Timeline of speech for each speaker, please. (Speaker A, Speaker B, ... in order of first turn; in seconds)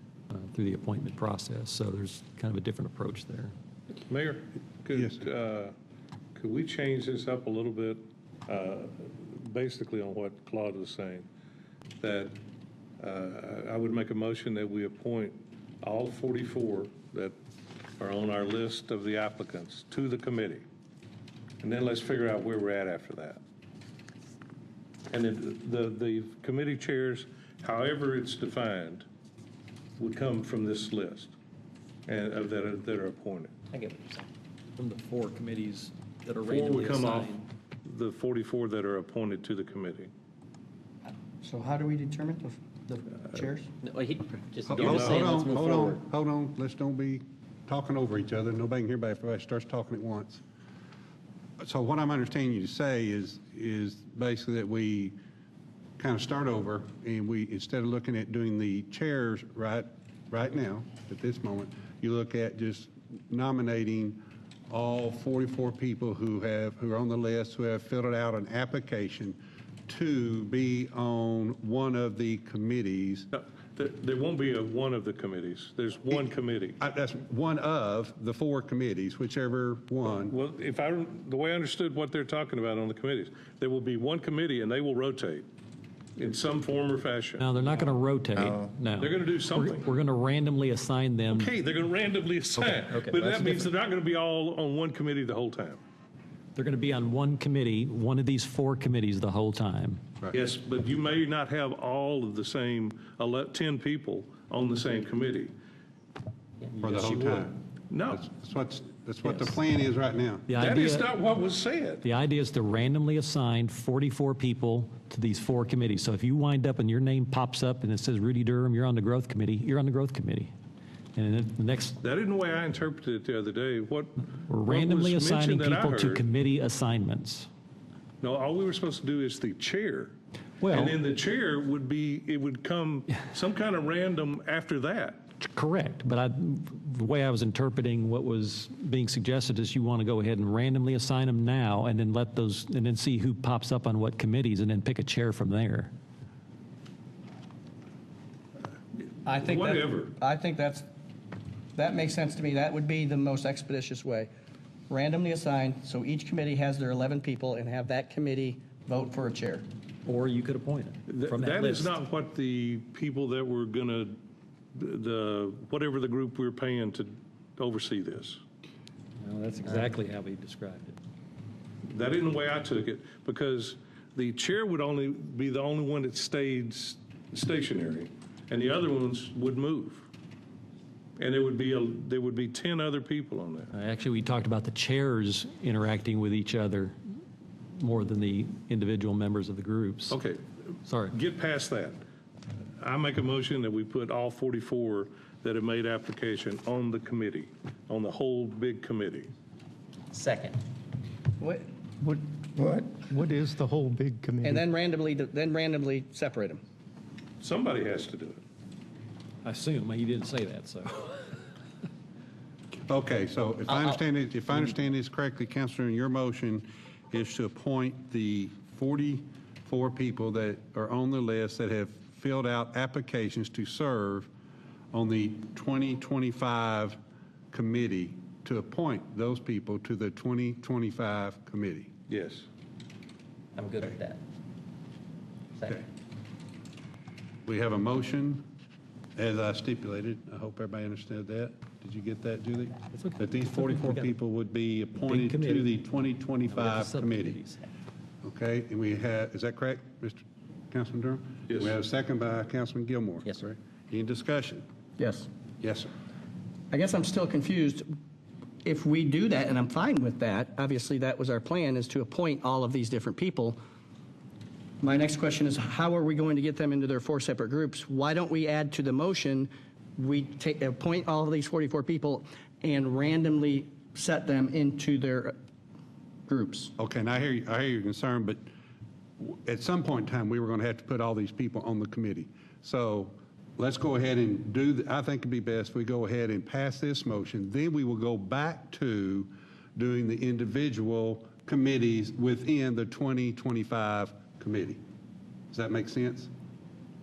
Speaker A: 0.3-3.5, 34.8-37.4, 87.4-91.5, 92.6-93.7, 96.5-100.0, 110.5-111.1, 112.0-120.5, 121.1-122.0, 124.4-127.5, 130.6-130.9, 135.4-145.9, 160.1-161.9, 169.2-171.0, 183.7-186.9, 187.8-190.2, 190.8-191.1, 209.4-211.3, 242.9-244.1, 245.0-245.7, 246.5-247.7
Speaker B: 4.1-5.7, 6.3-11.2, 12.0-12.3, 13.0-17.3, 18.0-20.6, 21.6-23.4, 25.1-29.1, 30.0-31.3, 32.0-33.6, 36.4-40.1, 44.7-45.3, 73.3-76.8, 80.3-85.4, 86.2-87.5, 89.0-89.9, 91.3-95.8, 100.3-105.5, 107.9-108.2, 110.6-112.0, 122.0-126.2, 128.2-130.1, 130.7-135.2, 149.3-150.1, 161.1-164.2, 164.7-168.4, 171.8-180.1, 181.2-183.7, 190.1-190.4, 191.1-192.0, 192.8-199.3, 207.4-208.4, 232.1-232.5, 251.5-251.7
Speaker C: 4.9-5.2, 44.7-50.4, 51.6-55.2, 56.0-73.3, 76.8-80.4, 106.8-107.6, 108.1-110.5, 212.8-224.3, 224.9-227.0, 227.5-231.9, 237.4-238.4, 239.2-247.4, 248.2-254.6, 255.6-255.9, 276.8-278.4, 279.2-294.8, 295.5-296.3
Speaker D: 33.7-34.2, 43.8-46.0, 200.1-200.6, 233.6-234.2
Speaker E: 41.4-43.7, 149.2-150.9, 151.7-154.3, 154.9-159.7, 201.4-202.4, 204.4-206.6, 255.0-255.3, 256.7-257.9, 258.6-263.6, 264.8-275.3, 276.3-276.7
Speaker F: 202.6-204.6